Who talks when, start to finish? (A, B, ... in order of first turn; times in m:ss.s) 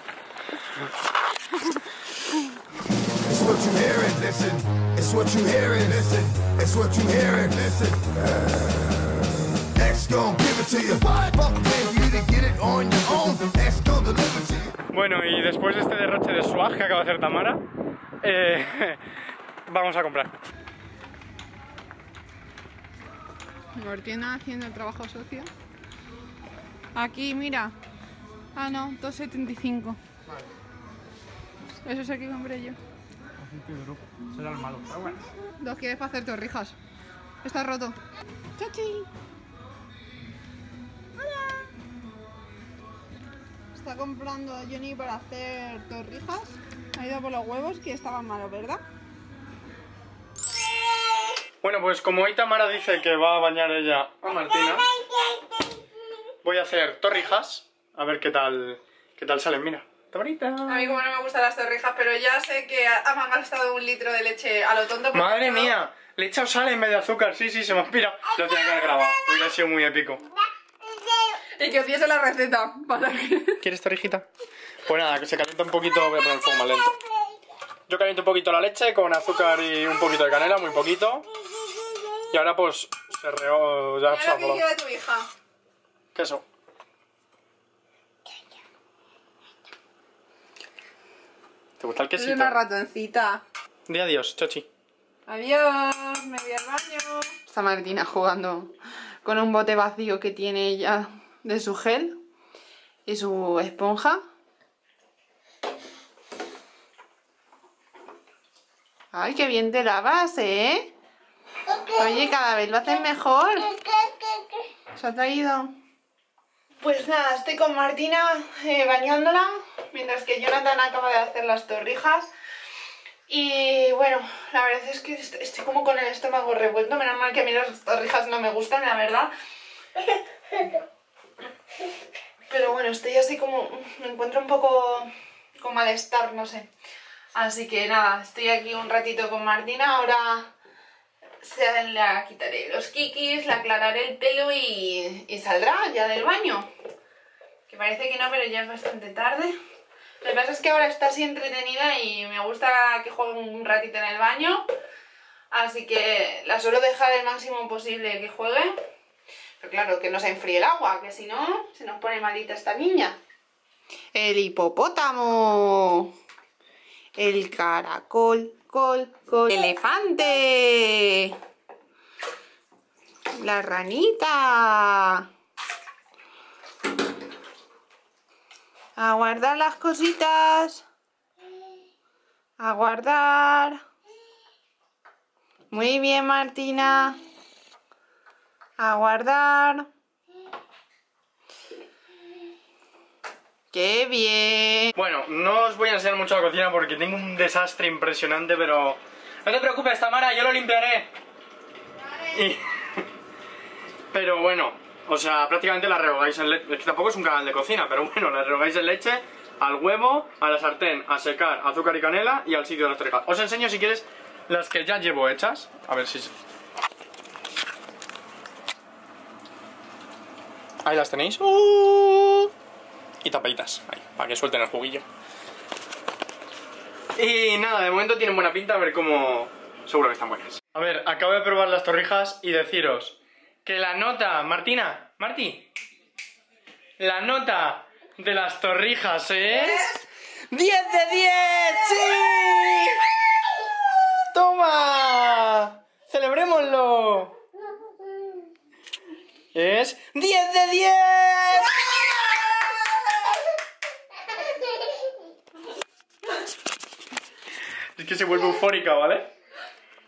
0:03.2-0:08.8 A
0:09.8-0:14.7 A
0:14.9-0:17.6 B
0:18.2-0:19.0 B
0:19.7-0:20.3 B
0:23.8-0:25.5 C
0:27.0-0:27.8 C
0:28.6-0:30.0 C
0:31.8-0:32.8 C
0:33.4-0:35.2 B
0:35.6-0:36.8 C
0:37.4-0:38.0 C
0:38.6-0:39.1 C
0:43.7-0:48.8 C
0:51.6-0:54.9 B
0:55.0-0:55.4 C
0:56.4-1:01.0 B
1:00.7-1:05.7 C
1:05.1-1:10.2 B
1:11.3-1:13.6 C
1:13.6-1:14.3 B
1:14.9-1:17.0 B
1:17.9-1:21.3 B
1:22.3-1:24.6 B
1:24.1-1:25.3 C
1:26.1-1:26.4 B
1:31.8-1:32.6 B
1:32.2-1:33.4 C
1:33.9-1:34.7 B
1:35.3-1:42.2 C
1:43.1-1:44.2 C
1:49.1-1:50.9 C
1:51.7-1:54.1 C
1:54.9-1:55.7 C
1:56.8-2:02.3 C
2:03.3-2:09.3 C
2:12.5-2:16.7 C
2:17.3-2:20.5 C
2:21.4-2:26.7 C
2:27.7-2:29.6 C
2:30.2-2:34.7 C
2:35.5-2:38.8 C
2:39.6-2:43.2 C
2:44.1-2:46.1 C
2:47.2-2:51.4 C
2:53.4-2:55.2 C
2:59.0-3:00.8 C
3:02.6-3:03.8 C
3:05.7-3:07.2 C
3:08.8-3:09.9 C
3:13.7-3:14.9 C
3:15.0-3:21.1 B
3:22.2-3:23.0 B
3:24.1-3:36.3 B
3:40.8-3:42.5 B
3:43.2-3:45.0 B
3:47.2-3:55.7 B
3:57.0-4:00.0 B
4:00.5-4:03.2 B
4:04.2-4:07.4 B
4:09.5-4:12.4 B
4:18.0-4:19.3 B